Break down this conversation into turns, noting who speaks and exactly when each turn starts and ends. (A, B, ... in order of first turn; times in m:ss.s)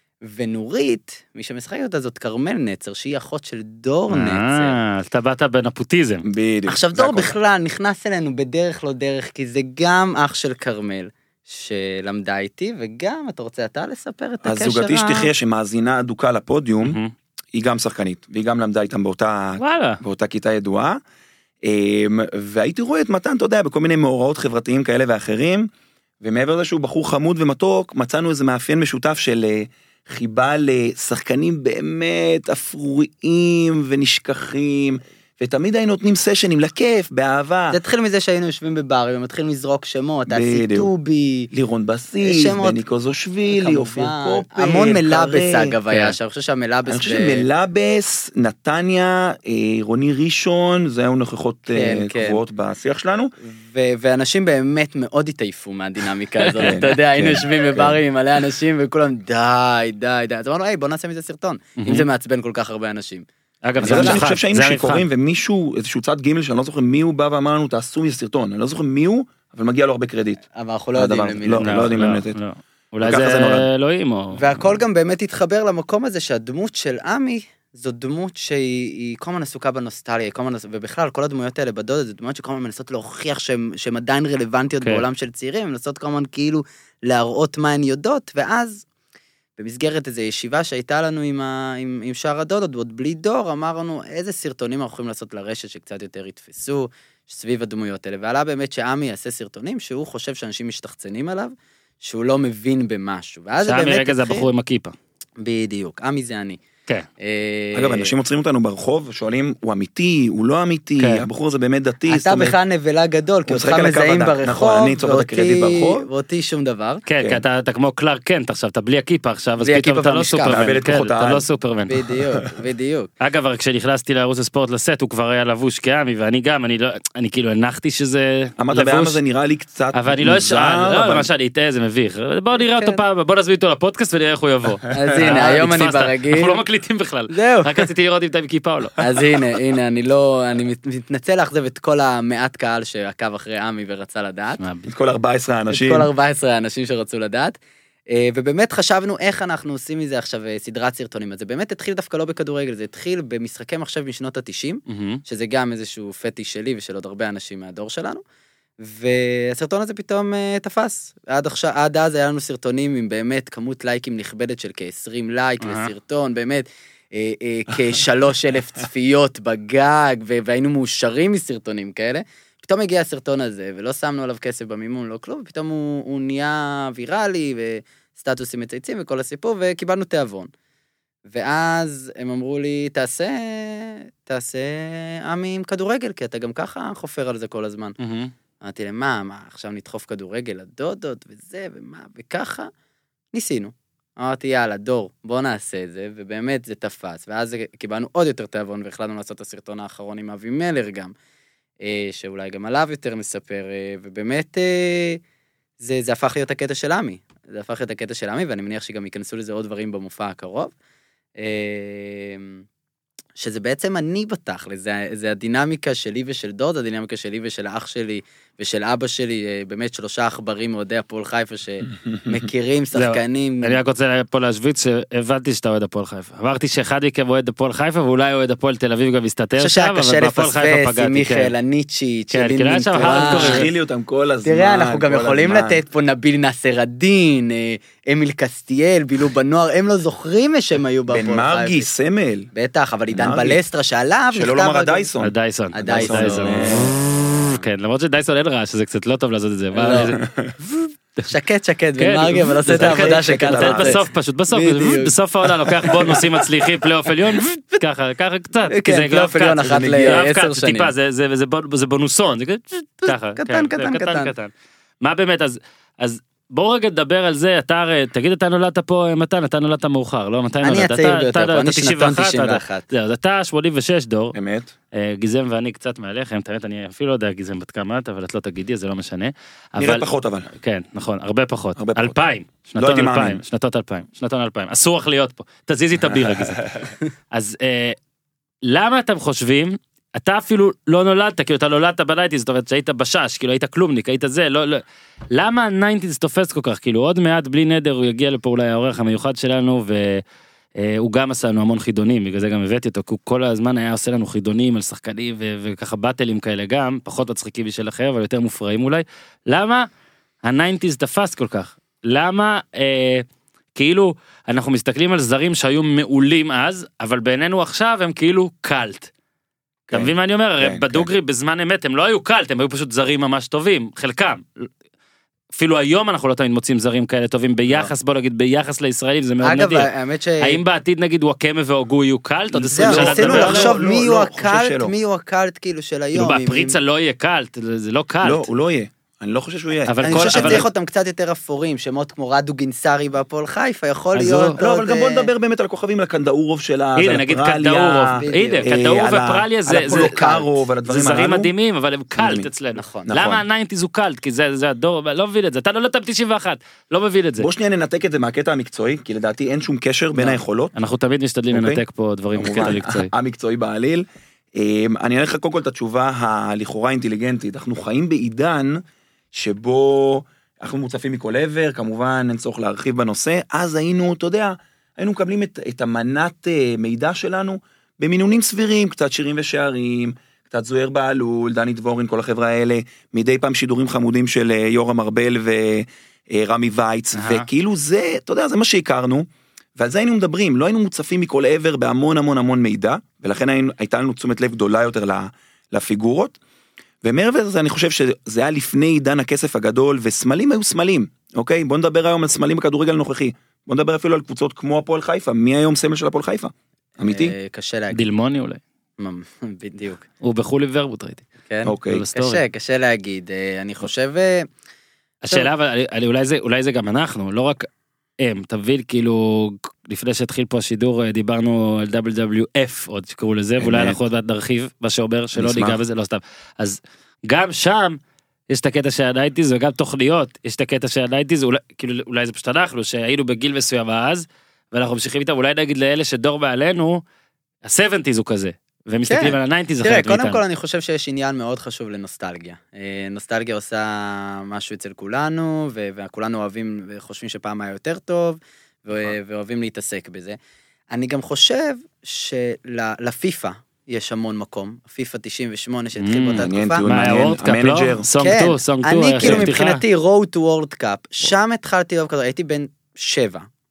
0:00.2-0:04.8 A
0:04.1-0:06.2 B
0:06.2-0:07.3 C
0:06.7-0:15.3 A
0:14.4-0:17.0 C
0:16.8-0:17.1 B
0:17.5-0:21.0 C
0:19.6-0:20.0 B
0:21.6-0:25.7 C
0:26.2-0:37.8 C
0:37.7-0:41.5 A
0:40.3-0:40.9 C
0:41.5-0:45.7 C
0:42.2-0:42.8 A
0:43.5-0:47.5 A
0:45.9-0:46.2 B
0:46.9-0:53.3 C
0:51.7-0:52.4 A
0:53.4-1:03.2 A
0:56.4-0:56.8 B
0:56.6-0:58.0 C
1:01.8-1:02.0 B
1:03.6-1:05.0 B
1:03.8-1:04.2 A
1:03.8-1:10.4 C
1:10.5-1:11.9 A
1:11.0-1:12.4 C
1:11.6-1:14.4 B
1:13.0-1:13.7 C
1:14.3-1:28.8 A
1:29.6-1:44.5 A
1:43.6-1:44.9 B
1:45.4-1:46.6 A
1:47.2-1:48.1 A
1:47.7-1:52.6 C
1:51.0-1:51.3 B
1:52.1-1:57.0 A
1:53.5-1:56.1 C
1:57.0-2:02.0 B
1:59.6-2:00.7 A
2:00.5-2:01.4 C
2:01.9-2:03.1 A
2:03.2-2:09.2 B
2:08.6-2:11.3 C
2:09.9-2:19.0 B
2:12.5-2:13.0 A
2:14.9-2:16.6 A
2:15.0-2:15.5 C
2:17.3-2:17.9 A
2:19.0-2:24.6 A
2:24.6-2:24.9 B
2:24.9-2:26.1 C
2:25.7-2:38.2 A
2:34.9-2:35.2 B
2:38.8-3:00.5 A
2:45.6-2:45.9 B
3:01.3-3:07.9 A
3:08.0-3:08.3 B
3:08.6-3:12.7 A
3:13.3-3:21.1 A
3:21.8-3:25.2 A
3:25.8-3:30.7 A
3:31.4-3:32.6 A
3:33.4-3:43.8 A
3:42.9-3:51.5 B
3:49.6-3:53.7 A
3:52.3-3:53.6 B
3:53.0-3:55.8 C
3:54.4-4:01.9 A
4:01.1-4:02.5 C
4:02.5-4:05.1 A
4:03.1-4:03.6 C
4:04.3-4:06.9 C
4:05.2-4:11.3 B
4:05.7-4:06.7 A
4:09.7-4:10.2 A
4:10.2-4:10.5 C
4:11.3-4:15.1 A
4:12.0-4:34.4 B
4:12.7-4:14.0 C
4:15.8-4:16.2 A
4:18.7-4:20.9 A
4:19.6-4:20.2 C
4:23.0-4:24.3 A
4:30.6-4:32.9 A
4:34.3-4:34.7 C
4:34.9-4:46.6 B
4:39.8-4:40.5 C
4:41.8-4:42.2 C
4:42.8-4:43.4 C
4:46.0-4:46.9 C
4:47.3-4:48.0 B
4:48.6-5:00.2 B
5:00.8-5:09.9 B
5:10.4-5:19.1 B
5:19.9-5:21.1 C
5:19.9-5:24.7 B
5:25.5-5:29.9 B
5:29.4-5:30.6 A
5:30.4-5:33.7 B
5:32.5-5:34.9 C
5:32.7-5:36.8 A
5:36.1-5:38.5 B
5:38.2-5:40.7 C
5:39.9-5:40.7 B
5:40.0-5:45.3 A
5:44.1-5:44.6 B
5:44.6-5:51.5 C
5:47.0-5:50.2 B
5:48.1-5:48.7 A
5:49.7-5:50.6 A
5:50.8-5:57.5 B
5:52.2-5:52.5 C
5:52.8-5:53.1 A
5:53.1-5:53.4 C
5:57.4-6:00.7 C
6:00.7-6:03.1 B
6:01.5-6:01.8 C
6:02.4-6:36.4 C
6:27.1-6:27.5 B
6:37.0-6:47.3 C
6:47.0-6:48.0 A
6:47.9-6:48.6 B
6:49.0-6:50.0 A
6:50.2-6:51.2 B
6:51.5-6:54.5 A
6:51.6-6:52.0 C
6:51.8-6:52.4 B
6:55.2-6:57.7 B
6:58.2-7:17.0 B
7:03.6-7:04.0 C
7:05.4-7:05.8 C
7:17.6-7:20.4 B
7:19.1-7:30.4 A
7:30.9-7:36.8 A
7:36.0-7:39.8 B
7:36.4-7:38.1 C
7:38.2-7:43.4 A
7:39.2-7:39.5 C